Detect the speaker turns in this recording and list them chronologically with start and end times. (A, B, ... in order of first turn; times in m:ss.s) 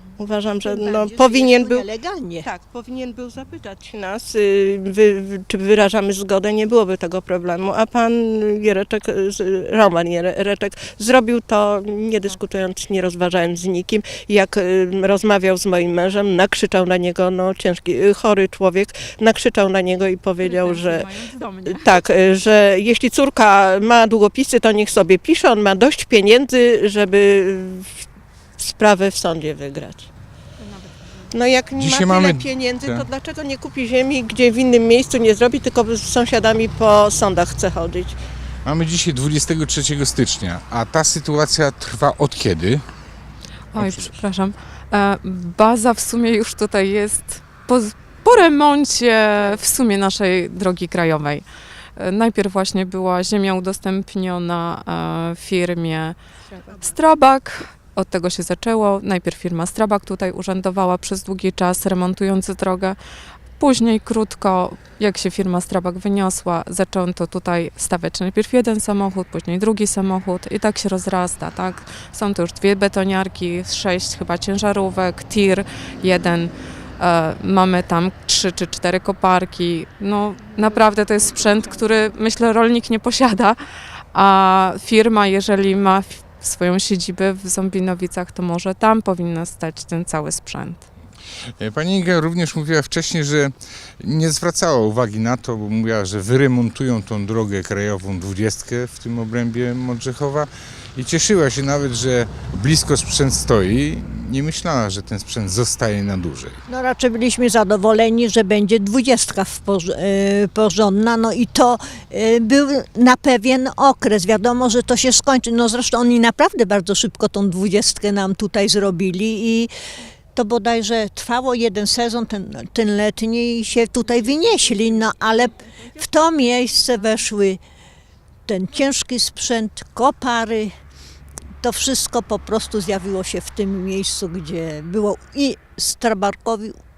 0:00.2-0:01.8 A
0:00.6-0:02.5 B
0:02.4-0:21.1 A
0:20.4-0:22.0 C
0:21.6-0:28.0 A
0:28.6-0:30.1 A
0:30.6-0:31.3 C
0:31.3-0:38.2 A
0:31.7-0:33.1 D
0:38.6-0:42.8 D
0:43.7-0:56.2 C
0:43.8-0:44.2 D
0:56.5-0:57.0 A
0:56.8-1:03.0 C
1:03.6-1:23.6 C
1:24.1-1:30.8 C
1:31.6-1:46.6 D
1:46.7-1:59.7 B
2:00.3-2:07.6 B
2:04.1-2:05.7 A
2:08.5-2:10.7 B
2:11.6-2:16.8 B